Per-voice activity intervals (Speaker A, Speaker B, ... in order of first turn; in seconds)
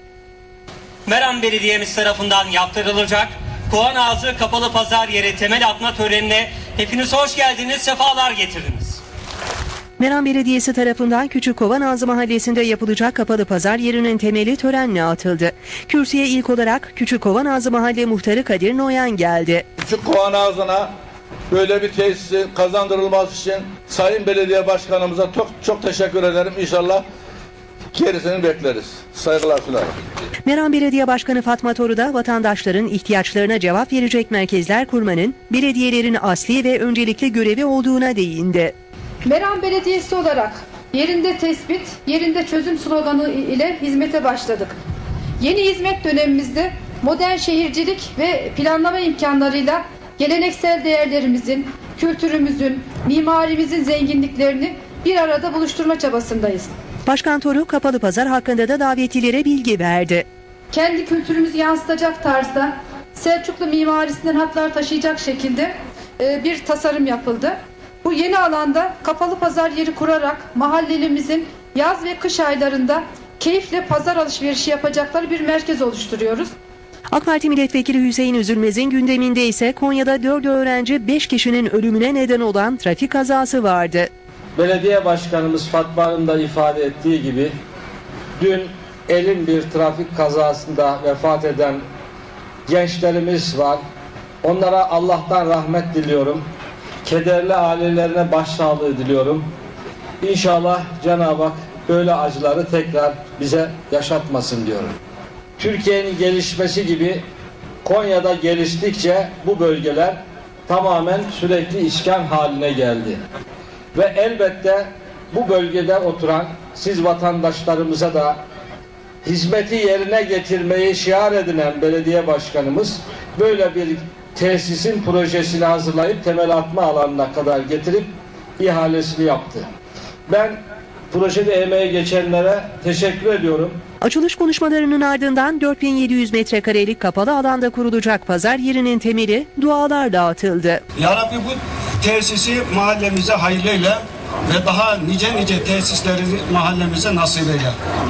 Speaker A: 1.1-9.0
Speaker B: 10.0-19.6, 30.4-38.8, 57.1-60.3, 77.1-84.1, 134.0-140.8
Speaker C: 19.8-20.9, 21.5-27.1, 27.9-29.9
Speaker D: 39.2-44.8, 45.4-56.7, 60.7-76.5
Speaker E: 84.6-87.5, 88.4-91.8, 92.7-93.8, 94.4-96.4, 97.0-99.5, 100.2-104.9, 105.6-107.2, 107.8-113.2, 113.9-118.4, 119.2-129.7, 130.3-130.6, 131.1-133.8
Speaker F: 141.0-147.8